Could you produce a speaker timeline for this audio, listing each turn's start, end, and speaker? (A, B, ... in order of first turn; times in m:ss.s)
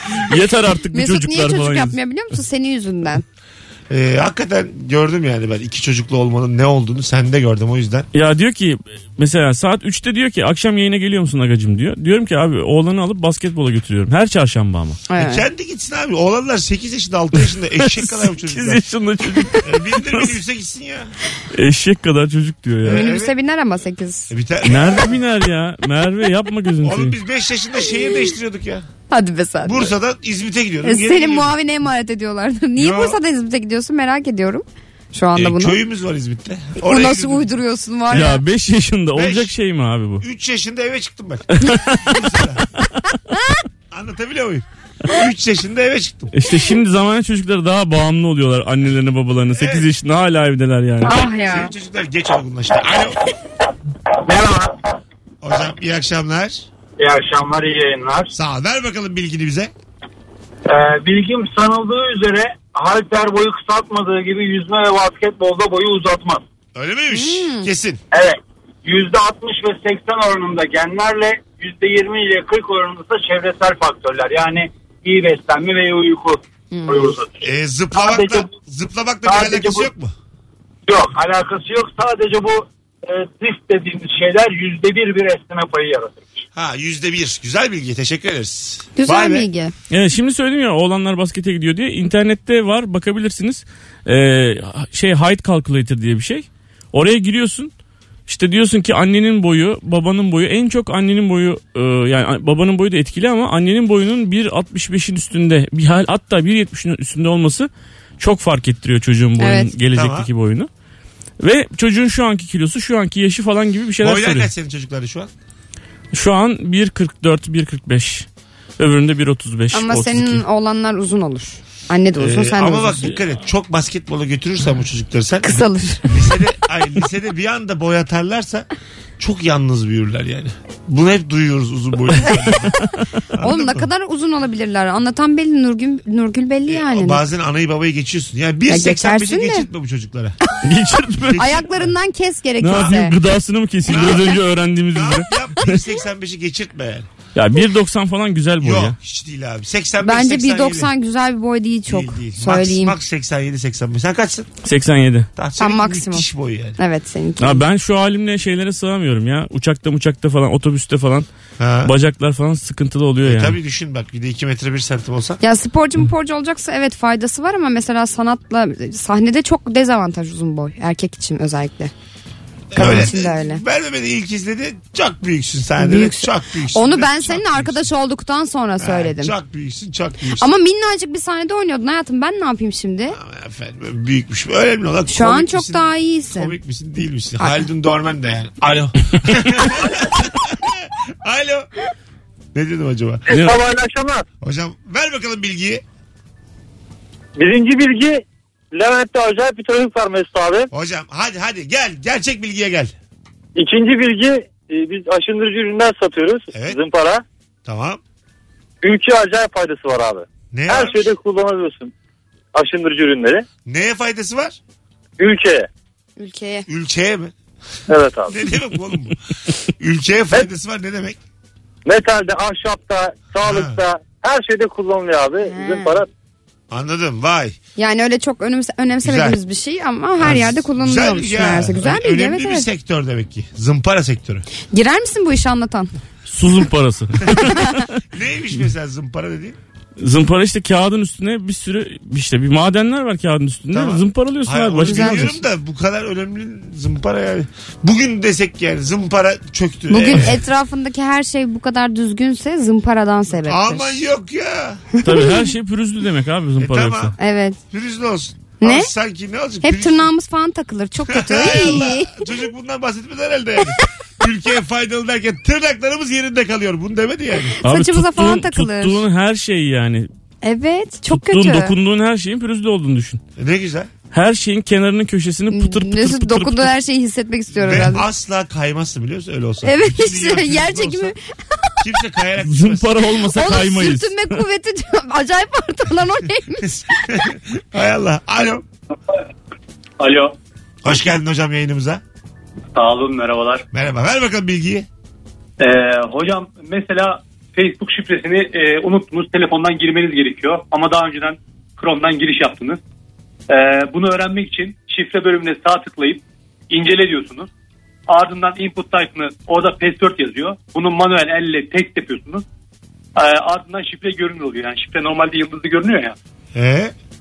0:00.2-0:01.9 A
0:00.9-0:03.2 B
0:03.9-0:08.1 C
0:08.1-0:15.0 A
0:15.1-0:15.4 B
0:15.2-0:18.8 C
0:17.8-0:20.4 A
0:19.6-0:21.1 C
0:21.5-0:23.1 A
0:22.8-0:23.3 C
0:22.9-0:24.3 B
0:24.3-0:25.2 C
0:24.6-0:27.2 A
0:26.8-0:28.8 C
0:29.1-0:29.9 B
0:29.6-0:31.5 C
0:30.8-0:35.8 B
0:32.8-0:33.2 C
0:35.4-0:37.5 C
0:36.8-0:38.4 B
0:38.1-0:40.2 A
0:39.1-0:39.5 C
0:40.2-0:42.6 C
0:41.6-0:42.2 A
0:43.9-0:46.3 C
0:46.3-0:51.2 A
0:49.5-0:49.9 C
0:51.0-0:51.7 B
0:51.4-0:53.2 C
0:54.2-0:54.8 D
0:55.4-0:56.7 C
0:57.0-0:58.3 D
0:58.3-0:59.7 C
1:00.6-1:06.4 D
1:06.7-1:08.0 C
1:07.1-1:07.7 B
1:08.1-1:17.3 D
1:16.7-1:17.1 B
1:17.4-1:20.1 C
1:17.9-1:18.5 D
1:19.2-1:19.9 D
1:20.9-1:26.4 D
1:26.5-1:29.5 C
1:29.0-1:29.7 B
1:29.9-1:37.7 A
1:38.3-1:50.7 A
1:49.4-1:49.7 B
1:49.9-1:50.3 C
1:51.4-1:54.5 A
1:54.0-1:55.3 C
1:56.1-1:58.2 A
1:58.8-2:00.4 A
1:59.7-2:03.1 B
2:02.2-2:08.7 C
2:05.4-2:06.2 B
2:09.2-2:12.8 C
2:13.3-2:13.9 C
2:13.4-2:17.2 B
2:16.7-2:20.4 C
2:18.7-2:19.6 B
2:20.6-2:21.6 A
2:21.3-2:21.9 C
2:21.3-2:23.1 B
2:22.6-2:25.8 A
2:22.7-2:23.0 C
2:23.8-2:24.4 C
2:24.9-2:27.1 C
2:27.3-2:29.0 A
2:28.6-2:30.9 C
2:30.0-2:32.9 B
2:31.9-2:34.5 C
2:34.6-2:35.3 A
2:35.4-2:36.8 C
2:35.6-2:36.2 B
2:36.8-2:37.6 B
2:37.4-2:41.3 A
2:41.6-2:41.9 C
2:41.8-2:43.6 A
2:43.2-2:45.4 C
2:45.4-2:51.9 B
2:52.7-2:57.9 C
2:52.7-2:53.6 B
2:55.8-2:59.3 B
2:58.8-3:00.5 C
3:00.4-3:03.2 B
3:03.1-3:11.7 C
3:05.1-3:06.5 B
3:12.5-3:13.2 C
3:13.3-3:14.2 E
3:13.3-3:13.6 A
3:14.4-3:15.8 C
3:17.4-3:20.7 E
3:20.7-3:22.9 C
3:23.6-3:27.2 E
3:26.5-3:26.8 C
3:27.6-3:28.0 C
3:28.8-3:31.9 E
3:30.5-3:31.0 C
3:32.5-3:33.4 E
3:33.6-3:34.6 C
3:35.2-3:35.7 E
3:36.2-3:36.7 B
3:36.7-3:37.3 C
3:37.9-3:38.4 E
3:38.3-3:41.2 C
3:41.8-3:46.1 E
3:43.4-3:43.8 C
3:45.5-3:45.9 B
3:46.7-3:47.6 C
3:47.8-3:52.7 B
3:49.0-3:49.4 C
3:50.2-3:54.4 C
3:54.7-3:55.9 B
3:56.3-3:57.8 A
3:57.4-3:57.8 B
3:58.1-3:59.6 C
4:00.0-4:05.4 A
4:03.7-4:10.4 C
4:04.8-4:05.3 B
4:09.9-4:14.0 B
4:13.4-4:14.8 C
4:15.0-4:17.1 A
4:15.0-4:15.3 B
4:16.6-4:17.1 C
4:17.2-4:17.6 B
4:17.7-4:20.1 C
4:18.6-4:18.9 B
4:19.6-4:22.2 B
4:21.1-4:27.6 C
4:27.6-4:29.0 B
4:27.6-4:30.1 A
4:30.4-4:31.7 B
4:31.1-4:33.2 A
4:33.4-4:33.9 C
4:34.1-4:36.7 A
4:35.5-4:38.0 B
4:37.5-4:41.1 C
4:39.6-4:41.7 B
4:41.8-4:43.0 C
4:42.4-4:44.4 A
4:43.3-4:46.7 B
4:46.6-4:48.6 C
4:50.0-4:50.4 F
4:50.8-4:52.0 C
4:52.7-4:53.6 F
4:53.7-4:54.9 C
4:55.6-5:02.8 F
5:03.5-5:07.5 F
5:08.1-5:12.4 F
5:13.1-5:16.2 F
5:16.5-5:16.9 C